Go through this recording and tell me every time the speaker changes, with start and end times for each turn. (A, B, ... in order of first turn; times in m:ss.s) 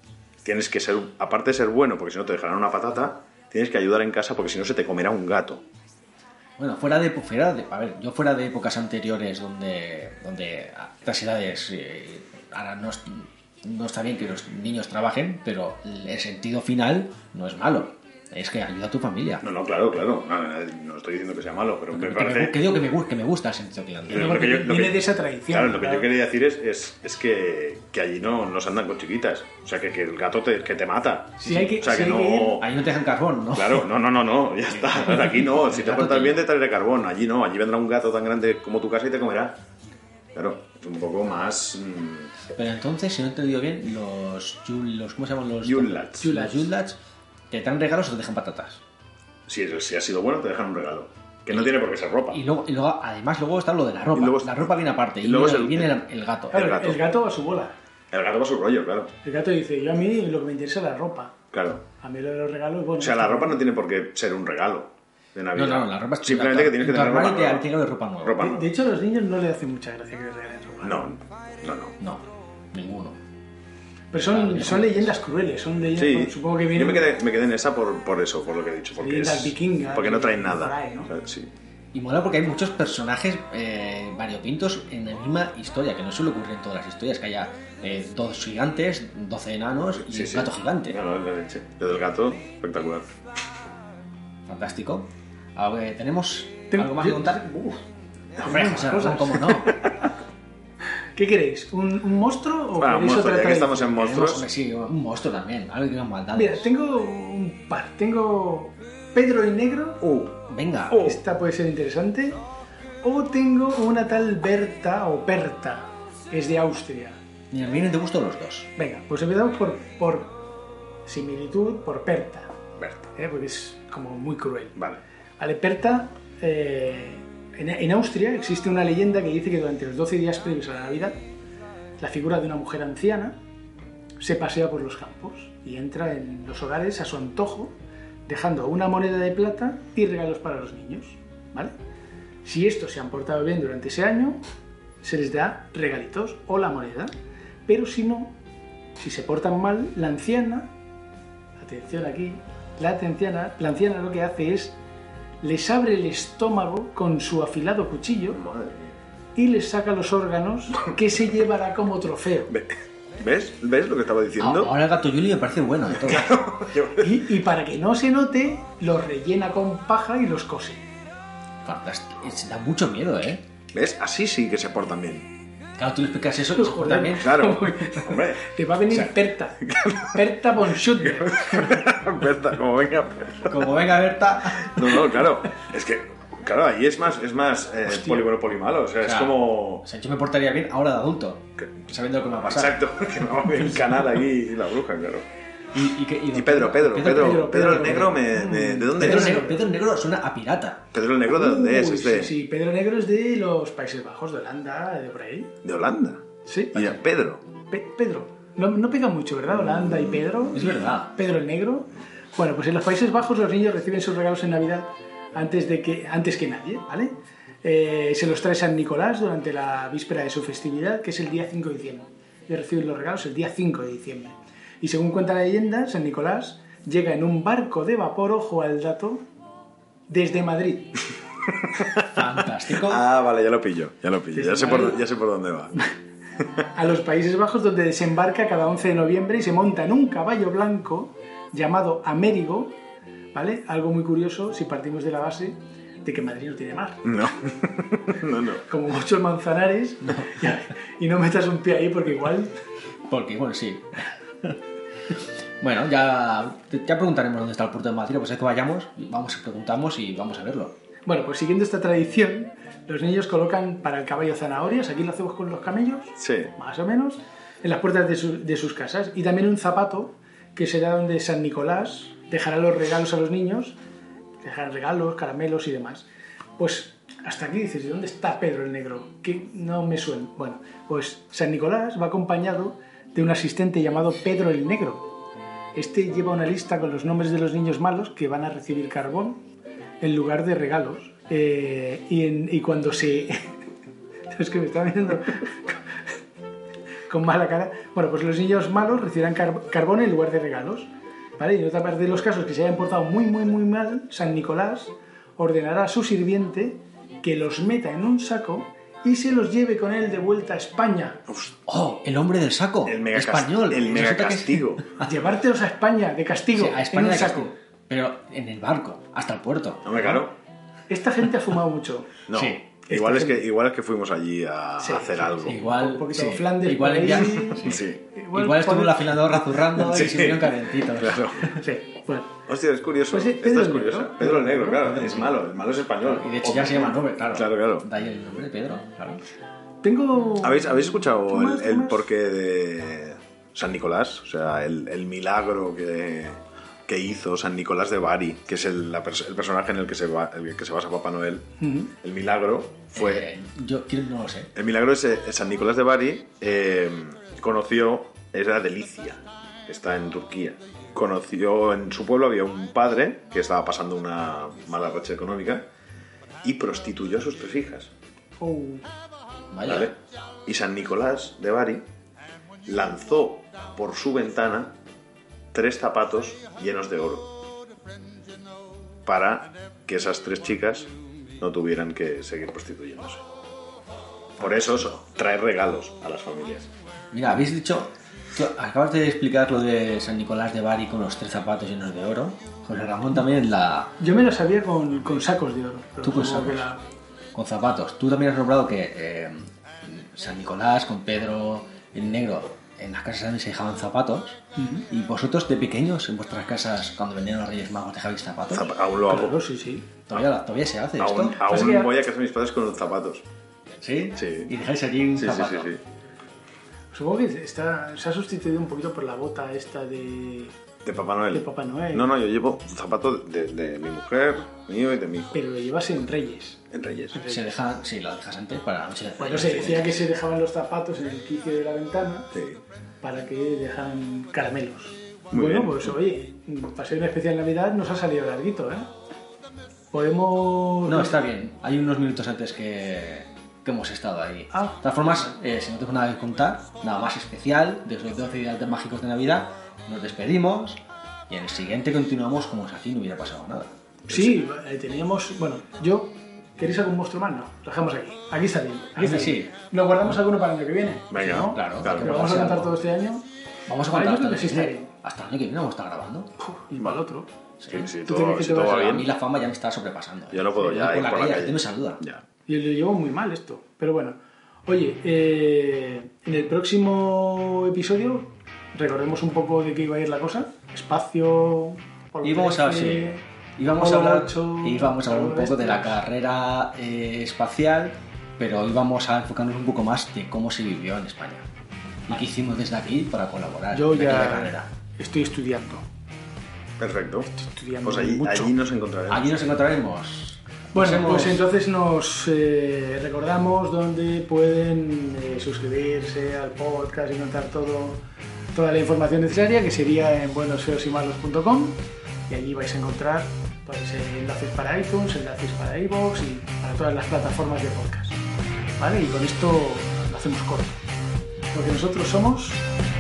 0:00.4-0:05.6 A
0:06.6-0:19.4 B
0:19.4-0:22.6 A
0:21.9-0:24.6 B
0:24.1-0:32.7 A
0:24.1-0:26.1 C
0:31.4-0:31.9 B
0:31.4-0:32.6 C
0:32.6-0:33.9 B
0:33.5-0:39.6 A
0:34.7-0:36.5 B
0:40.3-0:42.3 A
0:42.5-0:47.0 B
0:45.6-0:46.3 A
0:46.2-0:46.7 C
0:47.5-0:48.8 B
0:49.5-0:52.4 A
0:52.3-0:56.8 B
0:54.1-0:56.0 A
0:56.5-0:57.8 C
0:56.5-0:57.0 A
0:58.1-0:59.1 A
0:59.2-1:01.4 C
1:01.5-1:01.8 A
1:02.0-1:03.6 C
1:03.0-1:08.7 A
1:05.5-1:08.4 B
1:08.4-1:11.1 C
1:10.8-1:12.0 A
1:12.0-1:13.2 B
1:14.1-1:17.1 C
1:14.2-1:15.2 B
1:15.9-1:21.5 A
1:19.0-1:21.1 C
1:21.9-1:31.0 B
1:30.0-1:33.1 A
1:34.5-1:37.5 B
1:36.7-1:37.8 C
1:38.4-1:39.7 C
1:38.4-1:39.8 B
1:41.2-1:44.1 C
1:42.8-1:44.5 A
1:44.0-1:46.7 B
1:46.4-1:50.1 C
1:50.0-1:50.4 A
1:50.5-1:51.0 B
1:50.9-1:51.2 A
1:50.9-1:52.4 C
1:53.0-1:57.2 C
1:57.5-1:58.7 B
1:58.8-2:00.4 C
2:01.1-2:02.5 C
2:02.8-2:03.1 A
2:03.2-2:04.8 C
2:05.4-2:11.2 C
2:12.0-2:13.4 C
2:14.2-2:17.7 C
2:18.3-2:21.7 C
2:22.4-2:24.4 C
2:25.0-2:27.1 C
2:27.7-2:28.4 C
2:29.0-2:30.7 C
2:31.6-2:34.8 C
2:35.4-2:38.4 C
2:38.3-2:39.0 A
2:39.4-2:42.5 C
2:42.5-2:44.7 A
2:44.4-2:46.4 B
2:45.9-2:47.2 A
2:47.0-2:50.8 C
2:51.6-2:53.4 B
2:53.7-2:55.3 A
2:55.8-2:57.4 B
2:56.5-3:01.6 C
2:57.2-2:58.4 A
2:59.7-3:00.2 A
3:01.0-3:03.7 A
3:03.5-3:04.8 B
3:04.6-3:09.8 A
3:07.9-3:08.2 C
3:09.0-3:12.8 B
3:12.4-3:15.3 A
3:15.7-3:18.2 B
3:16.3-3:19.4 A
3:17.1-3:19.7 C
3:18.9-3:20.8 B
3:20.9-3:22.3 A
3:21.3-3:25.5 C
3:25.6-3:27.4 A
3:26.5-3:27.0 C
3:27.7-3:49.2 C
3:29.5-3:30.7 A
3:30.6-3:31.1 B
3:50.1-3:51.0 C
3:51.6-3:55.8 A
3:51.9-3:53.0 B
3:54.3-3:55.0 C
3:56.7-4:02.8 C
4:03.3-4:07.1 C
4:07.0-4:08.6 A
4:08.7-4:12.6 C
4:13.1-4:14.6 B
4:15.1-4:20.8 B
4:21.1-4:33.8 C
4:26.2-4:26.5 A
4:34.4-4:36.1 C
4:36.6-4:45.1 C
4:45.8-4:49.4 C
4:50.0-4:53.6 C
4:54.3-4:55.8 C
4:57.1-5:11.2 C
5:11.3-5:11.6 A
5:11.7-5:15.1 B
5:12.8-5:14.9 A
5:15.0-5:17.5 C
5:16.5-5:20.2 B
5:19.8-5:20.4 A
5:20.9-5:22.3 C
5:22.3-5:25.6 A
5:22.3-5:22.6 B
5:22.9-5:23.5 C
5:24.8-5:29.3 C
5:25.5-5:27.8 B
5:27.6-5:28.0 A
5:28.3-5:31.6 B
5:29.8-5:31.5 A
5:31.6-5:32.4 C
5:32.5-5:37.9 A
5:33.1-5:34.8 C
5:34.7-5:35.4 B
5:36.0-5:39.2 B
5:39.8-5:42.0 C
5:40.4-5:53.3 A
5:51.6-5:51.9 C
5:52.9-5:54.5 B
5:54.6-6:05.7 A
6:06.4-6:07.9 A
6:08.4-6:08.8 C
6:09.5-6:09.9 B
6:09.6-6:11.8 A
6:12.7-6:14.8 A
6:15.5-6:17.4 A
6:19.0-6:23.2 A
6:24.4-6:26.7 A
6:27.1-6:34.0 B
6:34.0-6:36.8 C
6:36.0-6:36.7 B
6:37.3-6:44.4 B
6:44.6-6:44.9 C
6:44.9-6:48.7 B
6:48.5-6:49.4 A
6:49.0-6:49.9 C
6:50.1-6:51.4 B
6:51.0-6:53.2 A
6:51.5-6:52.0 C
6:53.8-6:55.8 B
6:54.2-6:54.5 A
6:55.2-6:55.8 A
6:56.9-7:00.5 C
7:00.8-7:05.4 A
7:01.3-7:02.1 C
7:05.3-7:07.4 C
7:06.7-7:07.2 A
7:07.2-7:10.0 B
7:09.2-7:12.3 C
7:12.3-7:12.6 A
7:13.0-7:18.9 C
7:15.3-7:16.0 A
7:19.9-7:21.2 C
7:20.9-7:33.7 B
7:24.5-7:25.3 C
7:34.1-7:43.3 C
7:39.0-7:39.5 B
7:41.1-7:42.2 A
7:41.5-7:42.8 B
7:43.7-7:46.3 B
7:43.9-7:44.9 C
7:46.4-7:47.3 C
7:46.8-7:47.0 A
7:47.6-7:47.9 B
7:47.7-7:49.1 A
7:48.0-7:49.0 C
7:48.6-7:52.0 B
7:50.3-7:52.2 A
7:52.5-8:03.2 C
8:02.2-8:11.4 B
8:03.8-8:06.0 C
8:12.1-8:14.7 B
8:13.7-8:15.8 C
8:16.8-8:17.3 A
8:17.3-8:18.6 C
8:17.8-8:19.4 A
8:19.1-8:21.4 B
8:20.8-8:28.0 C
8:28.5-8:38.2 C
8:38.8-8:40.8 C
8:41.5-8:42.6 C